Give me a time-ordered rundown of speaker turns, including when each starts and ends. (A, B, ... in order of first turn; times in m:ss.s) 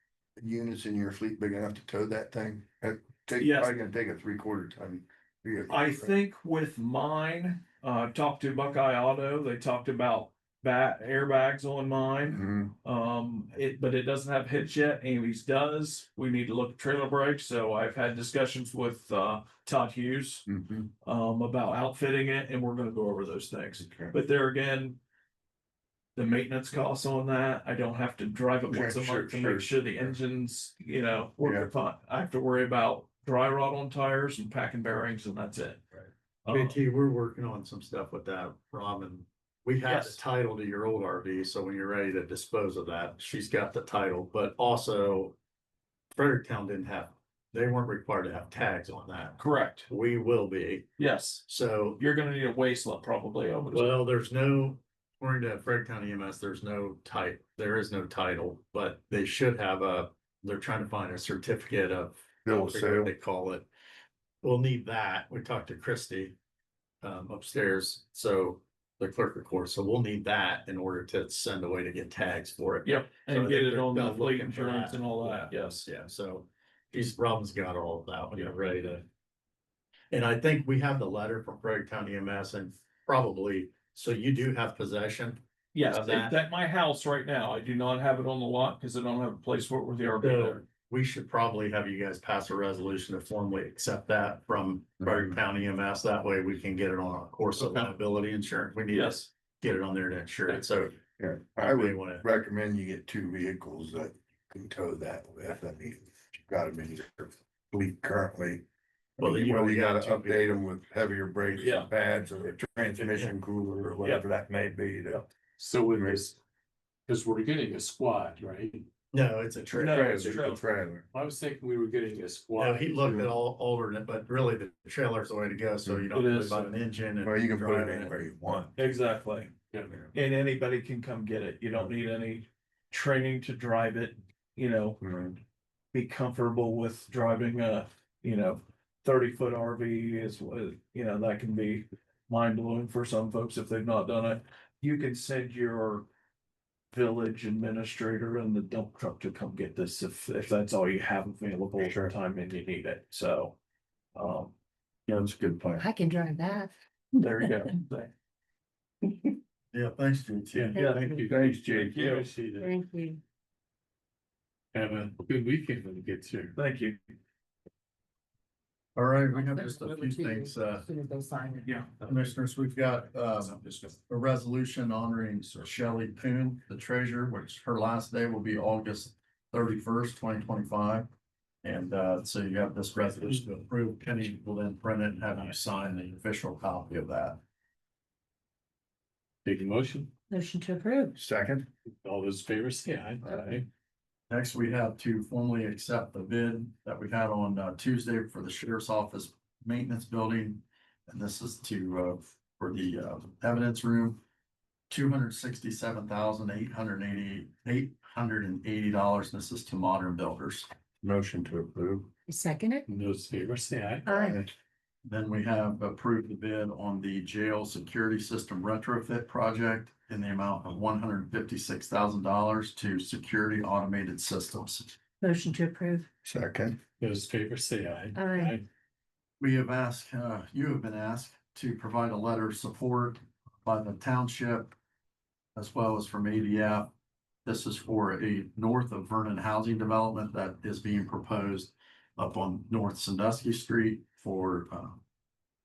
0:00.4-0:06.1 A
0:03.4-0:03.8 B
0:05.7-0:20.5 B
0:12.2-0:12.8 A
0:20.5-0:20.9 A
0:21.0-0:25.0 B
0:23.8-0:24.1 A
0:26.2-0:35.8 B
0:28.7-0:30.2 A
0:31.4-0:31.7 A
0:36.4-0:36.8 B
0:36.5-0:45.4 C
0:39.9-0:40.2 B
0:46.1-0:50.9 C
0:49.4-0:49.9 B
0:51.0-0:51.4 B
0:51.5-0:52.0 C
0:52.0-0:54.0 B
0:53.7-1:03.7 C
1:02.5-1:03.1 A
1:04.4-1:06.4 C
1:07.0-1:19.1 C
1:12.8-1:15.8 B
1:20.1-1:26.4 C
1:25.7-1:30.6 B
1:30.2-1:41.0 C
1:35.0-1:35.4 A
1:38.9-1:39.2 B
1:41.2-1:48.6 A
1:41.6-1:42.2 C
1:49.2-1:55.3 A
1:49.2-1:50.5 C
1:51.6-1:51.9 B
1:53.0-1:53.4 C
1:55.6-1:56.4 D
1:55.9-1:56.2 A
1:57.1-1:58.9 D
1:59.1-2:00.2 C
1:59.8-2:00.6 B
1:59.8-2:01.1 A
2:01.1-2:03.3 D
2:02.6-2:08.2 C
2:06.1-2:06.7 B
2:07.2-2:08.7 A
2:08.8-2:09.5 B
2:10.1-2:15.0 B
2:15.0-2:15.4 A
2:15.9-2:26.1 B
2:26.9-2:33.6 B
2:31.8-2:32.1 A
2:34.2-2:34.5 B
2:35.1-2:35.8 A
2:35.8-2:36.7 E
2:37.2-2:38.1 B
2:39.7-2:41.1 C
2:40.6-2:42.7 D
2:40.8-2:41.3 E
2:40.8-2:42.3 B
2:41.3-2:42.1 A
2:42.6-2:43.2 E
2:44.7-2:46.5 D
2:46.6-2:47.0 B
2:49.0-2:50.9 C
2:49.3-2:51.7 E
2:51.6-2:51.9 B
2:52.0-3:01.1 C
3:01.6-3:07.4 C
3:09.4-3:10.1 D
3:10.3-3:11.2 E
3:11.2-3:11.7 A
3:11.9-3:13.7 D
3:14.3-3:24.2 C
3:24.9-3:30.7 C
3:31.0-3:32.1 A
3:32.3-3:32.9 E
3:32.9-3:34.2 D
3:34.1-3:34.4 E
3:34.2-3:34.5 A
3:35.0-3:45.0 C
3:45.2-3:46.1 E
3:46.2-3:46.8 A
3:47.0-3:48.7 D
3:48.1-3:48.6 E
3:49.4-3:54.8 C
3:55.6-3:56.9 C
3:57.4-4:05.0 C